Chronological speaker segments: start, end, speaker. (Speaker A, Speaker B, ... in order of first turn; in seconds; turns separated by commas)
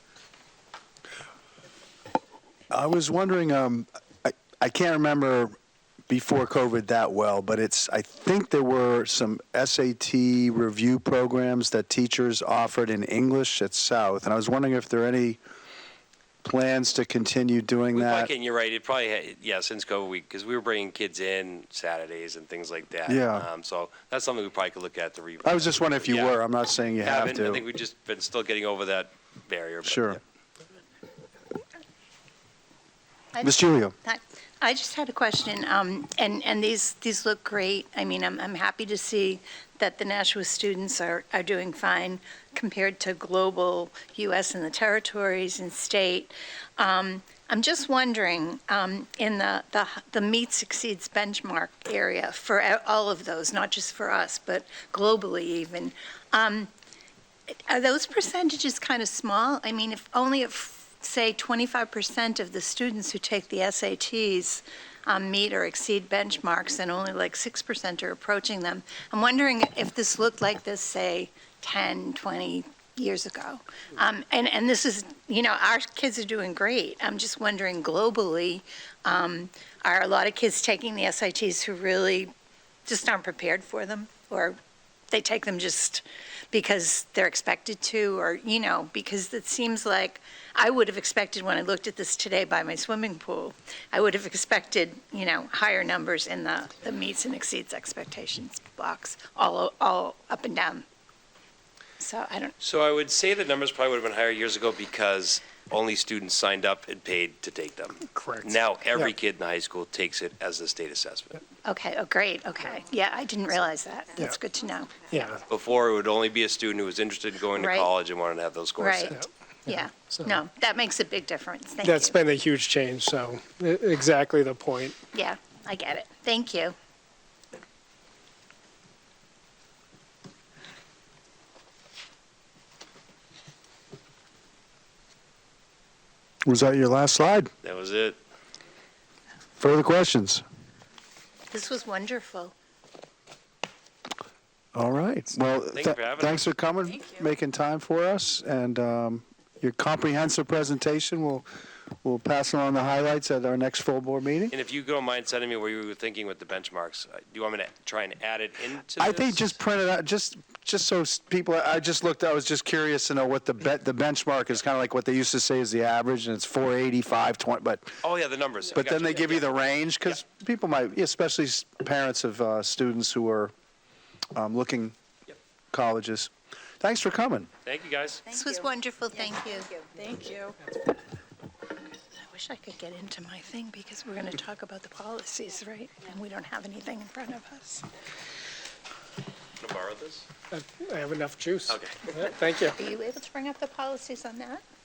Speaker A: 2.7-5.5, Speaker A: 6.1-15.4, Speaker A: 16.4-18.3, Speaker B: 17.9-26.3, Speaker A: 23.1-23.4, Speaker A: 25.4-27.6, Speaker B: 27.0-30.2, Speaker A: 29.8-30.2, Speaker C: 33.3-56.7, Speaker A: 33.4-33.9, Speaker C: 57.7-82.3, Speaker C: 82.8-84.5, Speaker C: 85.1-100.8, Speaker C: 102.0-102.5, Speaker B: 102.6-111.4, Speaker D: 108.1-109.1, Speaker C: 111.6-115.0, Speaker D: 115.1-115.4, Speaker B: 115.5-119.2, Speaker C: 117.5-117.9, Speaker C: 118.8-122.2, Speaker D: 119.1-120.4, Speaker D: 121.8-125.0, Speaker C: 125.1-126.7, Speaker A: 136.4-137.5, Speaker B: 137.6-138.2, Speaker A: 139.6-140.4, Speaker C: 141.5-142.5, Speaker A: 144.7-151.4, Speaker B: 145.7-146.4, Speaker A: 152.0-154.5, Speaker B: 154.5-159.5, Speaker A: 159.0-168.0, Speaker B: 168.0-169.5, Speaker A: 168.7-173.5, Speaker A: 174.3-174.9, Speaker A: 175.7-177.5, Speaker B: 177.6-178.2, Speaker E: 178.3-180.6, Speaker C: 178.3-179.7, Speaker C: 181.9-187.8, Speaker B: 189.6-190.2, Speaker D: 190.5-192.8, Speaker B: 191.7-192.0, Speaker C: 192.8-194.6